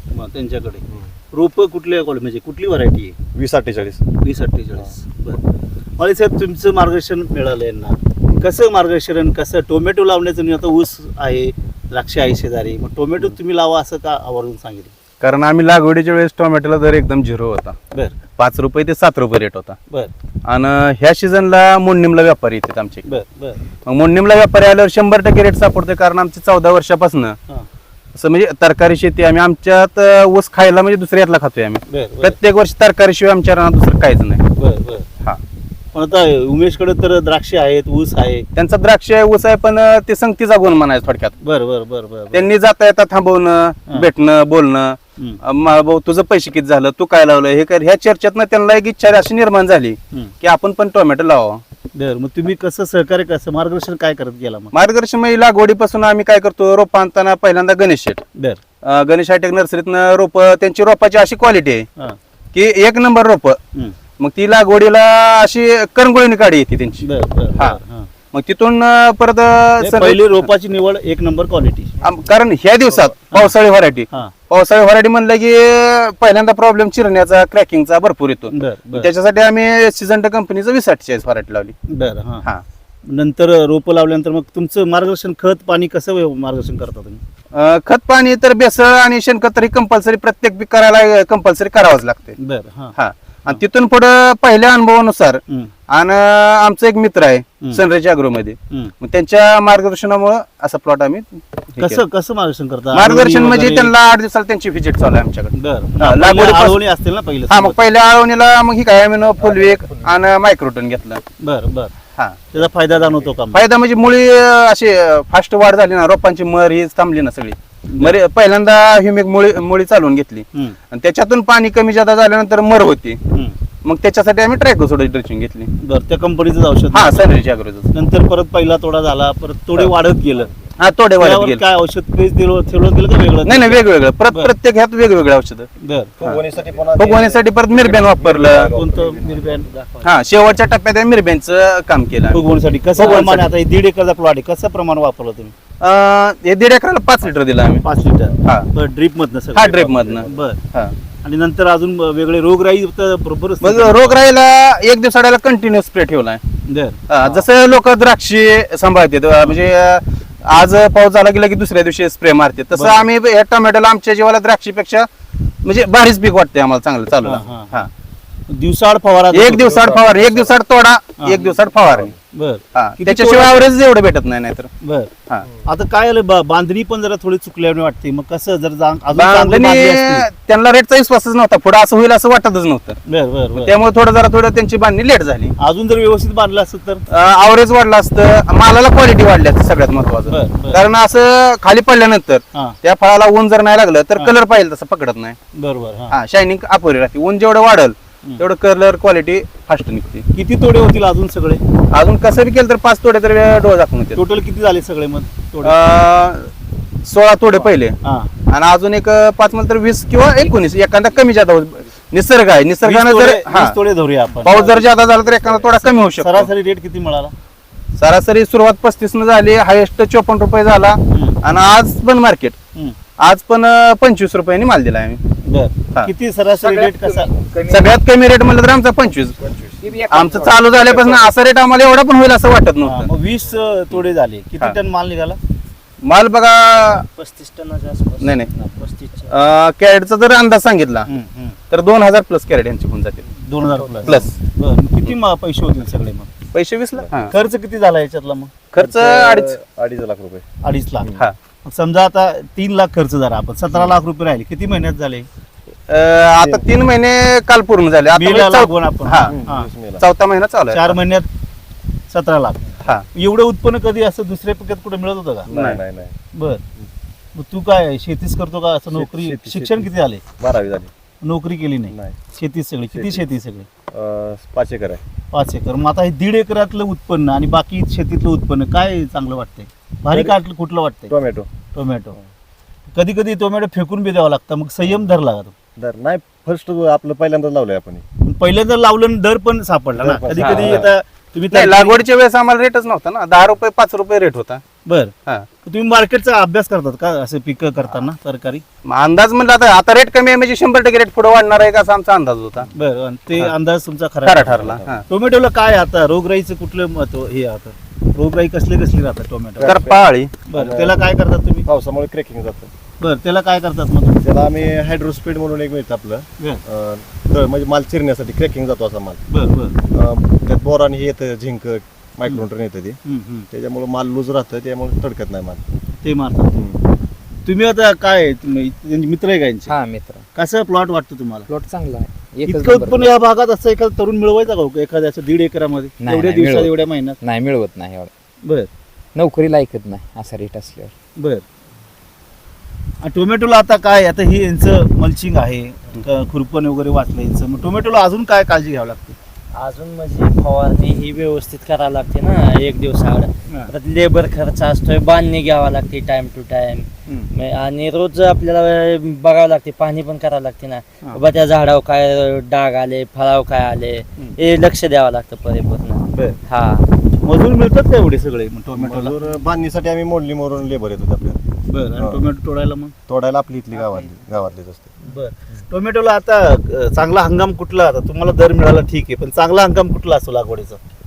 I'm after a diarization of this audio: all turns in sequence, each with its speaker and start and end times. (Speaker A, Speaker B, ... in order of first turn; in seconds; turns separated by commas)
Speaker A: 0.1-3.2, Speaker B: 3.3-4.1, Speaker A: 4.2-5.4, Speaker A: 6.0-14.9, Speaker C: 15.2-17.8, Speaker A: 17.9-18.2, Speaker C: 18.4-19.8, Speaker C: 20.4-23.0, Speaker A: 23.0-23.6, Speaker C: 23.9-27.4, Speaker C: 28.1-34.5, Speaker A: 31.9-32.4, Speaker A: 34.5-35.1, Speaker A: 35.9-38.5, Speaker C: 38.5-41.3, Speaker A: 41.4-42.5, Speaker C: 42.3-51.6, Speaker A: 51.9-54.7, Speaker C: 54.7-58.2, Speaker A: 58.4-58.6, Speaker C: 58.8-61.9, Speaker C: 62.5-63.6, Speaker C: 64.2-67.8, Speaker A: 67.0-68.1, Speaker C: 68.3-70.2, Speaker A: 69.8-71.9, Speaker C: 72.0-81.8, Speaker A: 78.5-79.1, Speaker A: 81.9-82.5, Speaker A: 83.0-87.2, Speaker C: 87.5-92.4, Speaker A: 92.4-92.9, Speaker C: 92.9-102.0, Speaker A: 101.8-103.9, Speaker C: 102.9-106.8, Speaker A: 105.5-107.8, Speaker C: 107.5-111.2, Speaker B: 109.4-110.2, Speaker A: 111.4-111.9, Speaker C: 112.2-112.5, Speaker A: 112.5-113.6, Speaker C: 113.5-123.2, Speaker A: 117.9-118.2, Speaker A: 123.3-123.5, Speaker C: 123.8-125.7, Speaker A: 125.8-127.3, Speaker C: 126.9-127.9, Speaker A: 127.9-130.5, Speaker C: 130.8-131.6, Speaker A: 131.2-134.5, Speaker C: 133.4-135.7, Speaker A: 135.8-136.1, Speaker B: 136.2-139.7, Speaker C: 136.9-138.7, Speaker A: 138.7-139.7, Speaker D: 139.7-140.2, Speaker C: 140.0-142.4, Speaker A: 142.3-145.5, Speaker C: 142.9-143.4, Speaker C: 145.8-147.8, Speaker A: 147.8-150.6, Speaker C: 149.5-150.9, Speaker A: 151.2-154.2, Speaker C: 153.6-156.4, Speaker A: 156.7-157.4, Speaker C: 157.1-165.1, Speaker A: 162.7-163.1, Speaker C: 165.6-167.9, Speaker A: 167.2-167.9, Speaker A: 168.5-170.0, Speaker C: 169.3-172.1, Speaker B: 169.5-170.5, Speaker A: 171.2-171.5, Speaker B: 171.8-172.2, Speaker A: 172.3-173.6, Speaker C: 172.7-174.7, Speaker A: 174.8-175.1, Speaker A: 175.6-180.2, Speaker C: 179.1-183.0, Speaker A: 183.1-183.7, Speaker C: 183.5-185.5, Speaker A: 185.6-187.0, Speaker C: 187.1-195.4, Speaker A: 190.3-190.8, Speaker A: 195.5-196.2, Speaker C: 196.1-200.2, Speaker A: 200.3-201.6, Speaker C: 201.9-204.2, Speaker A: 204.1-205.7, Speaker C: 205.6-206.5, Speaker C: 207.1-208.0, Speaker A: 208.0-208.3, Speaker C: 208.5-213.7, Speaker A: 212.8-217.3, Speaker C: 214.4-216.5, Speaker C: 218.0-222.6, Speaker A: 221.1-221.4, Speaker C: 223.2-225.2, Speaker A: 225.4-227.3, Speaker E: 226.5-228.0, Speaker C: 227.7-229.4, Speaker E: 229.4-231.2, Speaker C: 230.1-233.1, Speaker A: 232.8-235.4, Speaker C: 236.0-237.1, Speaker D: 236.8-239.3, Speaker C: 238.2-238.5, Speaker C: 239.3-241.1, Speaker A: 241.1-241.6, Speaker C: 241.7-243.3, Speaker A: 243.4-246.3, Speaker B: 243.7-244.3, Speaker C: 244.0-244.3, Speaker C: 246.5-247.3, Speaker B: 246.9-247.3, Speaker A: 247.3-248.5, Speaker C: 248.7-249.6, Speaker B: 248.8-250.4, Speaker A: 250.6-251.1, Speaker B: 251.0-251.3, Speaker A: 251.6-255.3, Speaker C: 255.9-259.3, Speaker B: 256.4-256.6, Speaker A: 258.1-259.7, Speaker B: 259.2-260.0, Speaker C: 260.0-260.9, Speaker A: 260.7-261.3, Speaker A: 262.1-265.5, Speaker B: 265.5-266.1, Speaker C: 265.5-265.8, Speaker A: 266.3-266.6, Speaker A: 267.3-270.2, Speaker B: 268.9-270.9, Speaker A: 271.2-273.7, Speaker B: 271.9-272.2, Speaker B: 272.9-273.2, Speaker B: 273.9-275.0, Speaker A: 275.3-281.1, Speaker B: 280.1-280.4, Speaker B: 281.1-281.5, Speaker A: 281.7-282.1, Speaker A: 282.9-285.5, Speaker B: 285.8-288.0, Speaker A: 288.2-292.0, Speaker B: 290.0-290.9, Speaker C: 290.3-290.9, Speaker C: 291.5-294.6, Speaker A: 294.8-295.1, Speaker A: 295.6-298.6, Speaker C: 298.8-302.7, Speaker A: 302.7-309.8, Speaker C: 304.2-305.0, Speaker B: 304.5-305.0, Speaker B: 309.6-311.1, Speaker C: 309.6-310.3, Speaker A: 310.5-311.6, Speaker B: 311.6-312.7, Speaker A: 313.0-314.2, Speaker B: 314.2-319.2, Speaker A: 319.3-319.7, Speaker B: 319.9-323.0, Speaker A: 323.0-323.5, Speaker B: 323.5-325.6, Speaker A: 326.0-326.5, Speaker B: 326.5-326.8, Speaker A: 327.4-329.7, Speaker E: 329.7-330.2, Speaker A: 330.3-331.5, Speaker E: 331.5-333.2, Speaker A: 332.4-337.2, Speaker E: 336.0-338.1, Speaker A: 338.4-338.7, Speaker E: 339.1-340.9, Speaker A: 341.2-341.4, Speaker A: 343.0-349.2, Speaker D: 349.5-366.9, Speaker A: 357.1-357.3, Speaker A: 366.1-366.4, Speaker A: 367.2-369.2, Speaker B: 368.7-371.4, Speaker A: 371.7-372.9, Speaker B: 372.0-372.2, Speaker B: 373.1-374.9, Speaker A: 375.0-380.8